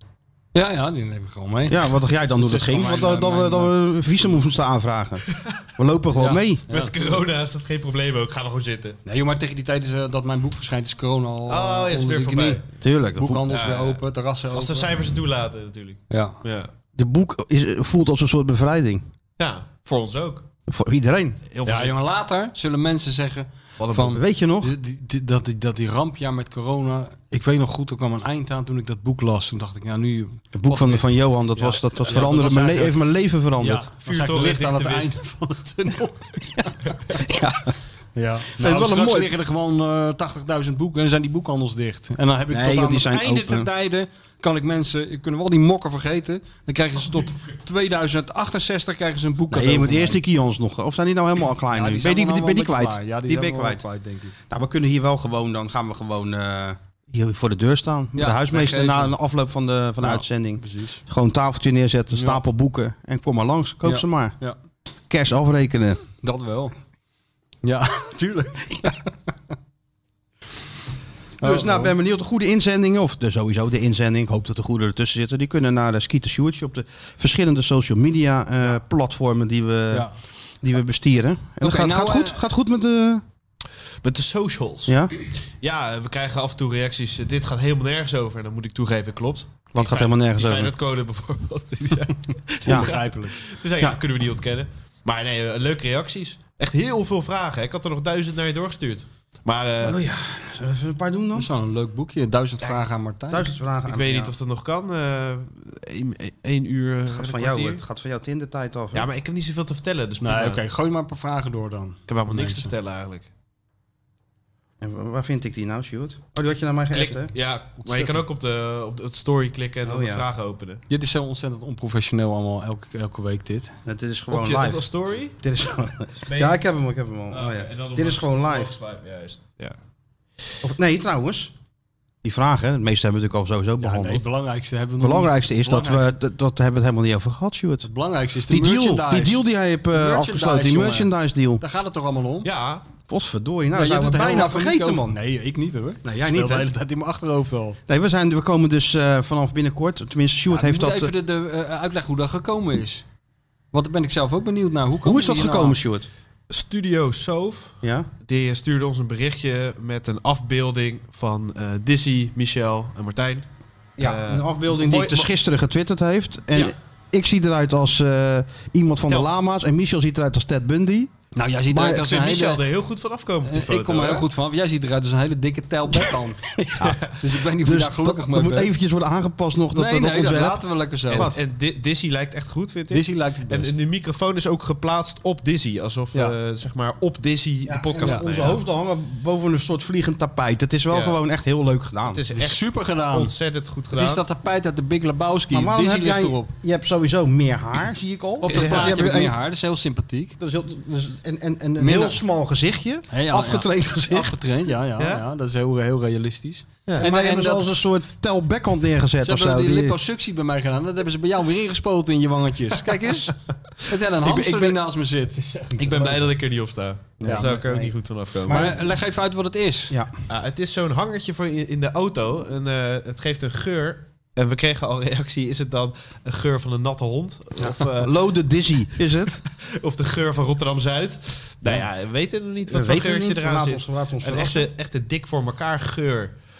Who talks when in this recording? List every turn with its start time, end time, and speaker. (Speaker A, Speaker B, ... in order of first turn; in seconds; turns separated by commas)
Speaker A: 0.6-3.8, Speaker B: 1.7-6.7, Speaker A: 6.1-7.0, Speaker C: 6.7-9.0, Speaker A: 9.1-12.6, Speaker C: 11.5-12.7, Speaker B: 12.8-13.5, Speaker A: 13.2-14.9, Speaker C: 13.4-16.7, Speaker A: 16.1-16.4, Speaker B: 16.9-19.1, Speaker C: 19.4-20.5, Speaker B: 20.7-21.4, Speaker C: 21.5-22.0, Speaker A: 21.6-33.0, Speaker C: 23.8-24.2, Speaker B: 24.1-24.7, Speaker B: 30.5-33.9, Speaker A: 33.6-36.7, Speaker C: 33.9-35.2, Speaker B: 37.1-37.7, Speaker A: 38.2-50.2, Speaker B: 38.6-39.3, Speaker B: 42.5-43.7, Speaker B: 49.5-53.8, Speaker A: 51.7-54.4, Speaker B: 54.5-64.4, Speaker A: 58.2-59.1, Speaker A: 60.0-61.0, Speaker A: 62.1-62.4, Speaker A: 63.8-64.6, Speaker B: 65.1-66.0, Speaker A: 66.2-66.8, Speaker A: 67.6-69.1, Speaker A: 71.4-71.9, Speaker B: 71.4-80.1, Speaker B: 80.6-83.2, Speaker A: 81.6-82.4, Speaker C: 84.0-85.0, Speaker B: 84.9-85.1, Speaker C: 85.6-100.0, Speaker B: 89.7-90.8, Speaker A: 92.7-93.4, Speaker B: 92.7-92.9, Speaker B: 99.8-101.5, Speaker A: 101.3-103.5, Speaker B: 103.3-104.3, Speaker C: 103.9-107.8, Speaker B: 107.1-109.1, Speaker C: 108.9-110.6, Speaker A: 110.2-112.7, Speaker C: 112.1-113.3, Speaker B: 114.8-117.3, Speaker C: 116.9-120.8, Speaker A: 117.8-118.2, Speaker B: 119.9-120.2, Speaker A: 120.9-123.7, Speaker B: 123.8-124.9, Speaker C: 124.3-125.4, Speaker B: 125.4-128.8, Speaker C: 126.2-126.6, Speaker C: 127.3-129.8, Speaker B: 130.6-131.5, Speaker B: 132.2-134.2, Speaker A: 133.8-136.2, Speaker B: 135.0-137.9, Speaker A: 137.8-142.5, Speaker B: 138.5-141.6, Speaker C: 142.4-142.9, Speaker B: 143.1-145.2, Speaker A: 143.7-147.8, Speaker B: 146.0-146.7, Speaker B: 147.9-151.1, Speaker A: 150.5-153.1, Speaker A: 153.7-155.8, Speaker B: 155.0-156.1, Speaker C: 156.5-163.5, Speaker B: 157.8-158.1, Speaker B: 164.0-171.1, Speaker C: 164.0-165.3, Speaker A: 171.3-172.6, Speaker C: 171.7-174.3, Speaker A: 173.4-176.5, Speaker B: 176.6-181.4, Speaker A: 177.1-178.7, Speaker A: 179.7-181.3, Speaker C: 181.1-188.6, Speaker A: 182.9-183.8, Speaker B: 187.7-192.2, Speaker C: 190.9-191.2, Speaker C: 192.1-194.2, Speaker A: 192.3-193.3, Speaker A: 193.9-196.5, Speaker B: 195.5-199.4, Speaker A: 198.4-200.4, Speaker C: 198.5-199.0, Speaker B: 200.4-204.3, Speaker A: 201.8-202.2, Speaker A: 203.1-207.7, Speaker C: 205.0-205.2, Speaker B: 207.0-210.0, Speaker A: 209.2-213.3, Speaker A: 213.9-215.6, Speaker B: 215.7-216.2, Speaker C: 215.8-218.7, Speaker B: 217.2-218.8, Speaker A: 217.2-217.5, Speaker A: 218.5-220.0, Speaker C: 220.3-228.1, Speaker B: 227.6-229.4, Speaker C: 229.4-236.4, Speaker B: 232.7-234.7